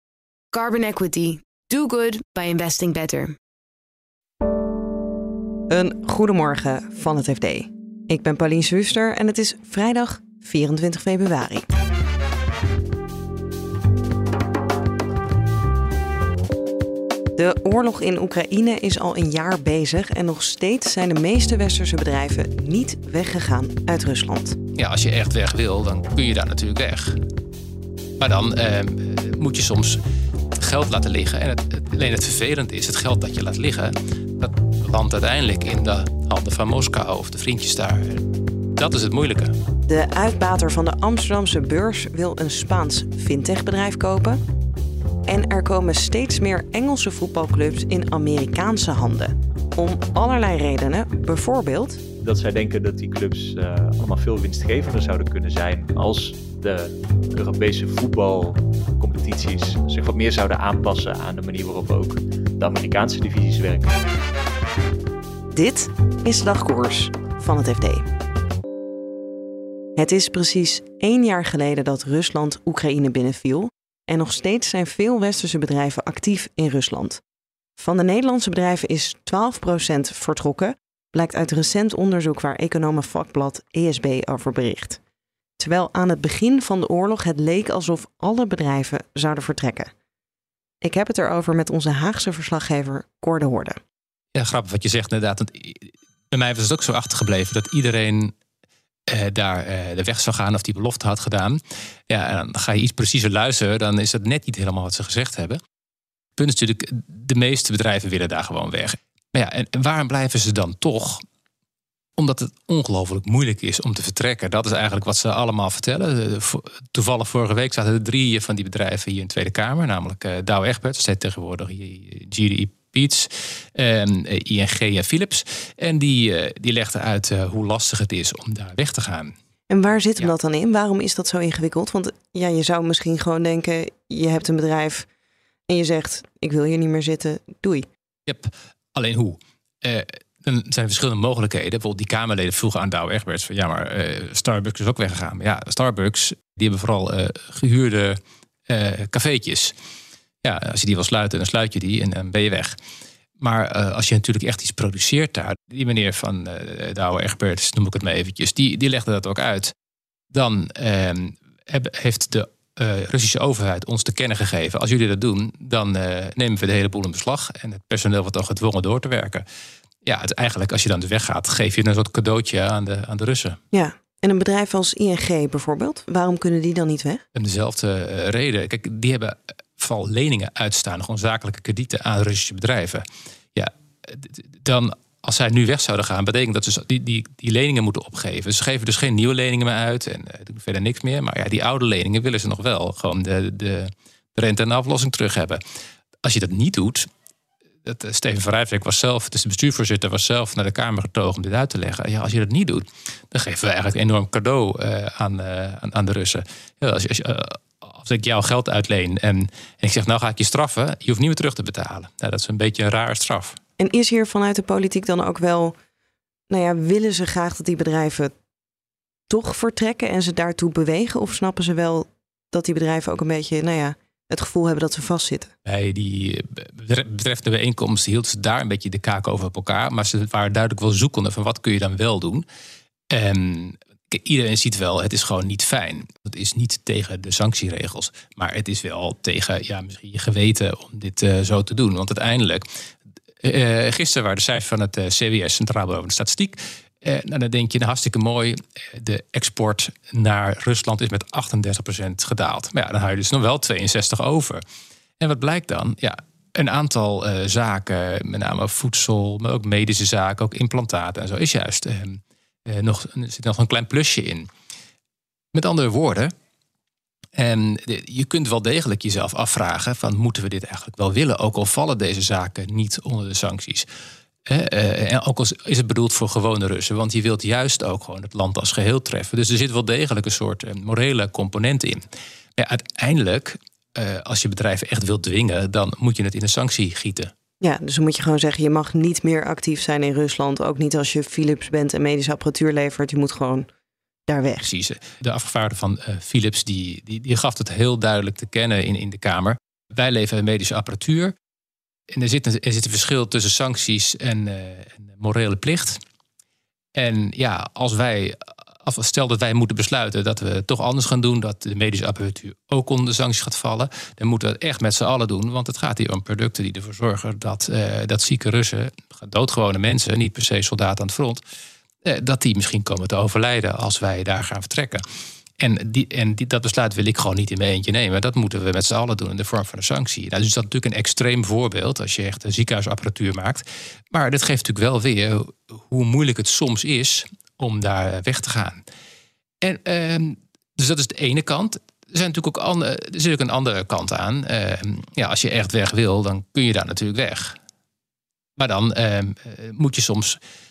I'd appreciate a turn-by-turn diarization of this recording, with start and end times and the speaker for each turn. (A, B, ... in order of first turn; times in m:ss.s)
0:00.5-0:03.4 A
0:05.7-0:11.7 B
0:17.4-0:24.6 B
0:24.8-0:27.2 C
0:28.2-0:30.0 C
0:30.6-0:38.2 C
0:38.8-0:39.5 C
0:39.9-0:44.4 B
0:45.3-0:52.0 B
0:52.2-1:04.0 D
1:05.6-1:08.0 B
1:10.0-1:17.2 B
1:17.8-1:25.0 B
1:25.6-1:29.9 B
1:30.8-1:33.8 B
1:34.4-1:38.3 C
1:39.1-1:41.6 C
1:42.1-1:45.6 C
1:46.4-1:51.2 C
1:52.2-2:09.3 C
2:09.7-2:15.1 B
2:15.7-2:17.9 B
2:18.3-2:28.2 C
2:28.7-2:29.7 C
2:30.4-2:32.8 C
2:33.4-2:39.7 C
2:40.3-2:49.4 C
2:50.0-2:53.6 C
2:53.7-2:57.2 B
2:57.4-3:03.0 C
3:03.6-3:15.6 C
3:16.2-3:17.1 C
3:17.8-3:33.6 C
3:33.8-3:35.7 B
3:36.5-3:38.3 B
3:39.3-3:45.5 B
3:45.6-3:52.4 C
3:53.1-4:02.6 C
4:03.4-4:14.6 C
4:15.2-4:24.5 C
4:25.5-4:26.3 C
4:27.4-4:33.9 C
4:34.5-4:42.0 C
4:42.6-4:47.3 C
4:47.6-4:53.7 B
4:54.3-4:54.7 B
4:54.6-5:01.3 C
5:02.1-5:06.0 C
5:07.0-5:21.4 C
5:22.0-5:25.0 C
5:25.6-5:38.8 C
5:39.6-5:47.6 C
5:48.6-5:50.4 C